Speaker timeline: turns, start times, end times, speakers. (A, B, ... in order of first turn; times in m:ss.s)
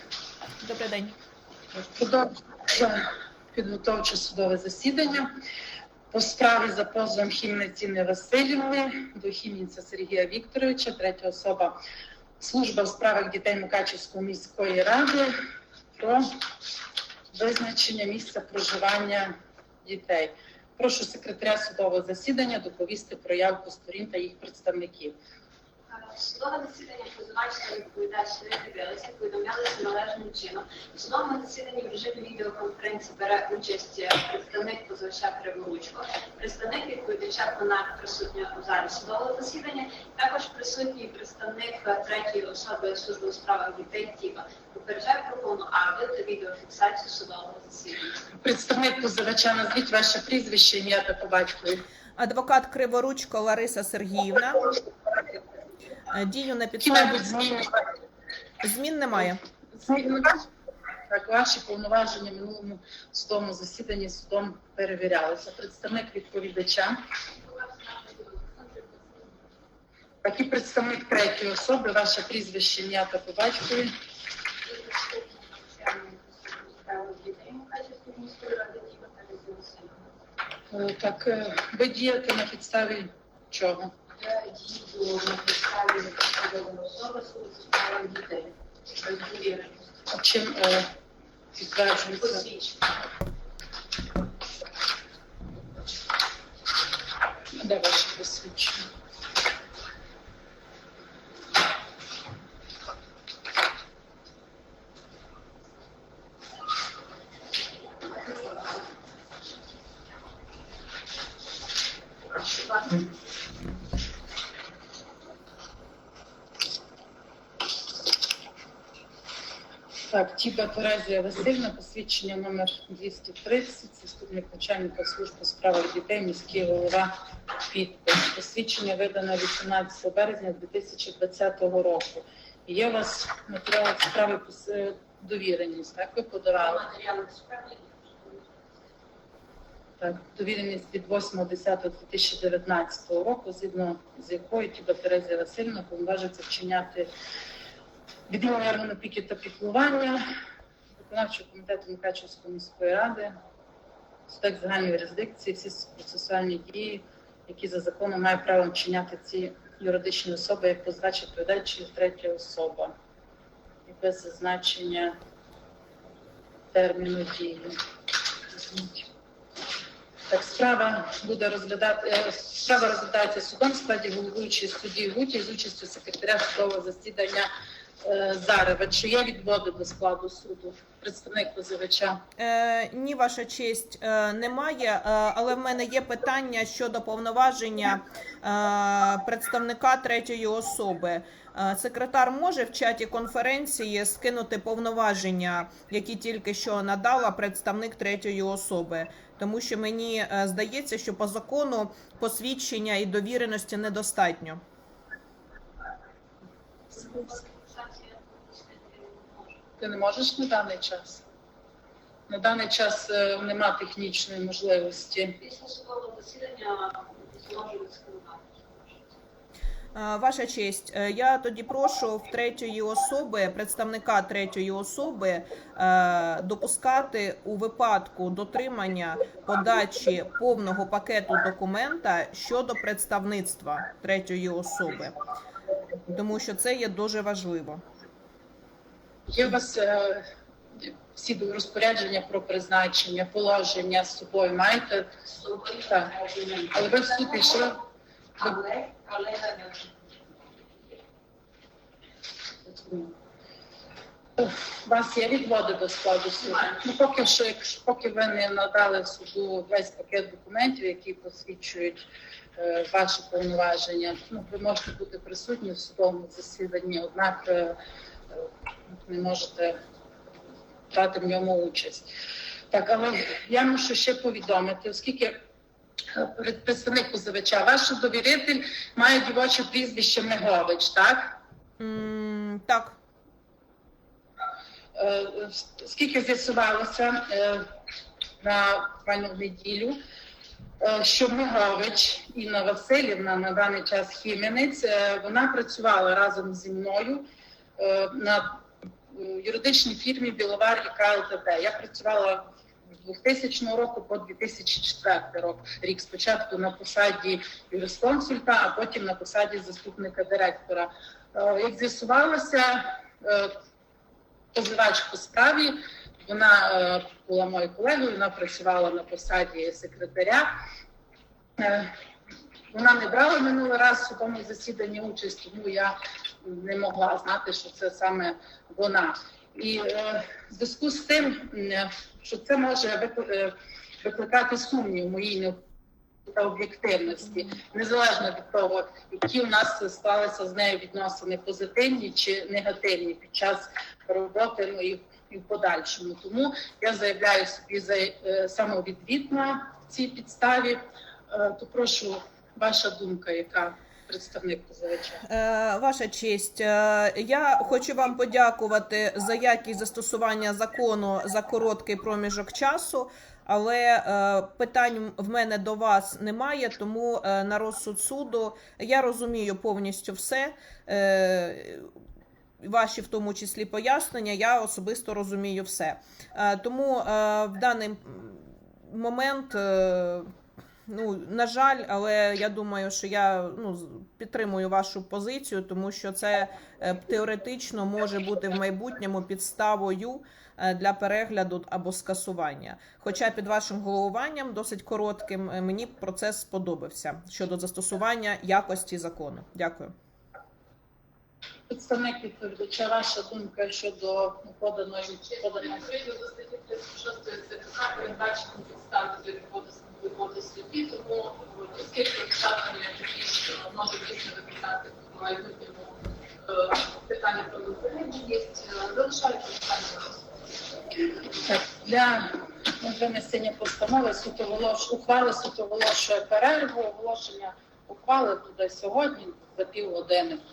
0:00.6-0:01.2 A
0:01.9-0:05.3 B
0:06.1-0:11.7 B
0:12.4-0:15.4 B
0:16.0-0:16.2 B
0:17.3-0:25.1 B
0:25.9-0:48.1 C
0:48.4-0:51.8 B
0:52.2-0:54.7 A
0:56.1-0:57.3 A
0:56.8-0:57.8 B
0:58.6-0:59.4 A
0:59.7-1:00.3 B
1:01.1-1:07.0 B
1:07.8-1:08.9 C
1:10.2-1:13.9 B
1:14.7-1:20.1 C
1:20.7-1:23.9 B
1:24.2-1:29.8 C
1:30.1-1:30.9 B
1:31.5-1:32.4 B
1:32.1-1:32.8 C
1:37.6-1:38.8 B
2:00.1-2:07.1 B
2:07.6-2:16.8 B
2:16.6-2:18.4 C
2:20.0-2:27.1 B
2:28.3-2:30.2 B
2:31.0-2:33.3 B
2:34.3-2:42.9 B
2:43.8-2:45.1 B
2:46.7-2:47.8 B
2:48.5-2:49.1 B
2:50.3-2:57.5 B
2:58.0-3:02.2 B
3:02.4-3:24.6 A
3:26.9-3:29.6 C
3:29.8-3:31.2 B
3:32.3-3:35.4 B
3:35.4-3:39.0 C
3:39.9-3:55.1 A
3:56.1-3:57.8 A
3:59.3-4:00.2 B
4:00.8-4:05.1 B
4:05.3-4:07.7 C
4:05.9-4:06.1 B
4:06.7-4:07.8 B
4:08.4-4:09.8 C
4:12.7-4:13.1 B
4:14.4-4:22.0 B
4:16.5-4:16.8 C
4:22.6-4:27.8 B
4:29.1-4:29.8 B
4:30.9-4:32.1 B
4:32.7-4:35.3 B
4:36.1-4:41.4 B
4:41.8-4:43.0 A
4:44.9-4:47.7 B
4:48.4-4:50.0 B
4:50.8-4:57.2 B
4:57.8-5:02.4 B
5:03.0-5:13.5 B
5:14.5-5:20.5 B
5:21.6-5:21.9 B
5:22.7-5:35.6 B
5:36.3-5:50.8 B
5:51.3-5:55.2 B
5:55.3-6:11.9 A
6:12.6-6:20.3 A
6:20.9-6:39.9 A
6:41.7-6:45.8 B
6:45.6-7:00.2 D
7:01.5-7:10.4 B